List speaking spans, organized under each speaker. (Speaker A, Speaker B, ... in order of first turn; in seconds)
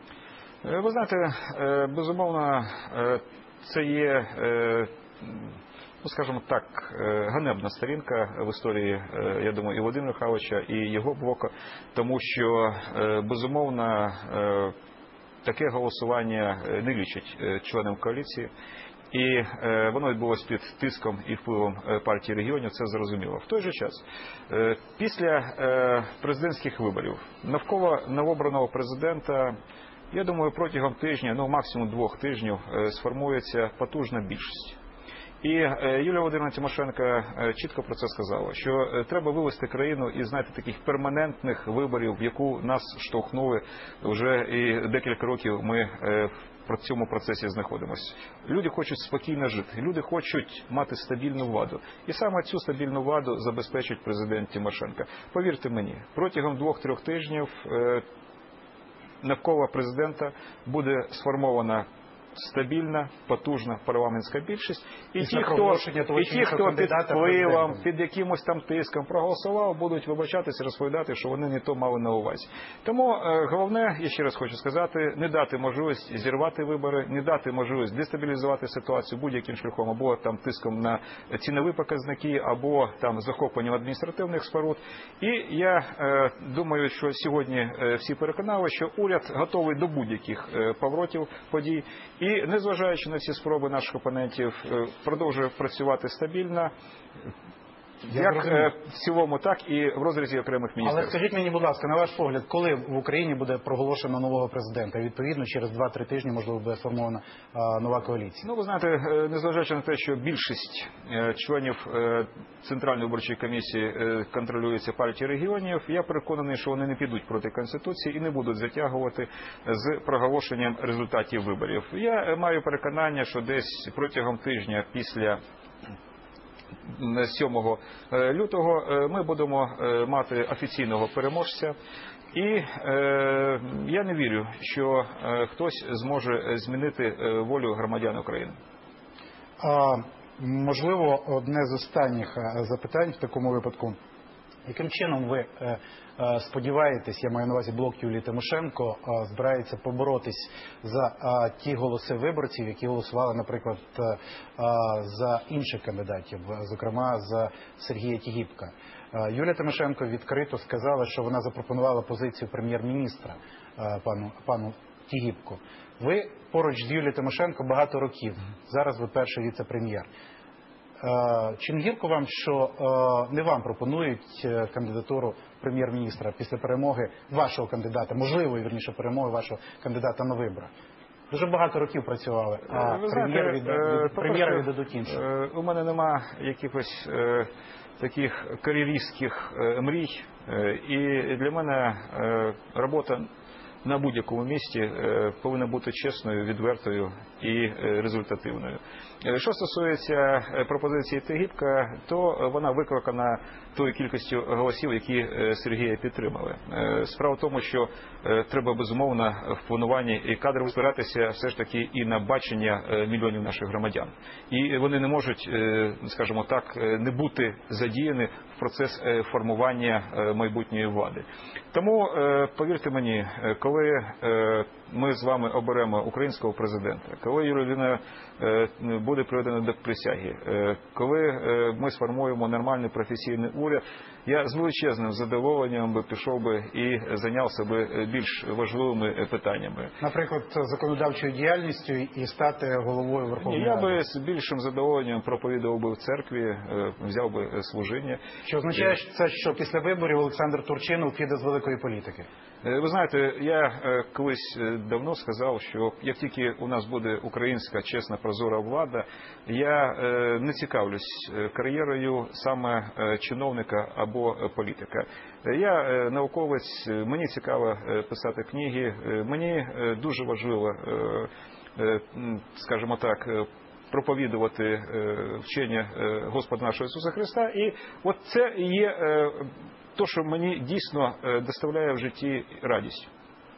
Speaker A: 0.6-5.5, 6.0-14.7, 15.4-18.5, 19.1-29.6, 30.1-34.8, 35.4-58.0, 59.2-96.7, 98.0-101.1, 108.4-125.4, 126.8-131.7, 132.3-138.5, 182.7-193.2, 193.8-239.9, 243.4-248.2, 252.6-283.1
Speaker B: 65.2-67.8, 98.1-98.7, 100.8-108.5, 139.6-144.0, 144.7-170.1, 171.0-180.7, 181.3-185.2, 240.0-244.0, 248.4-252.3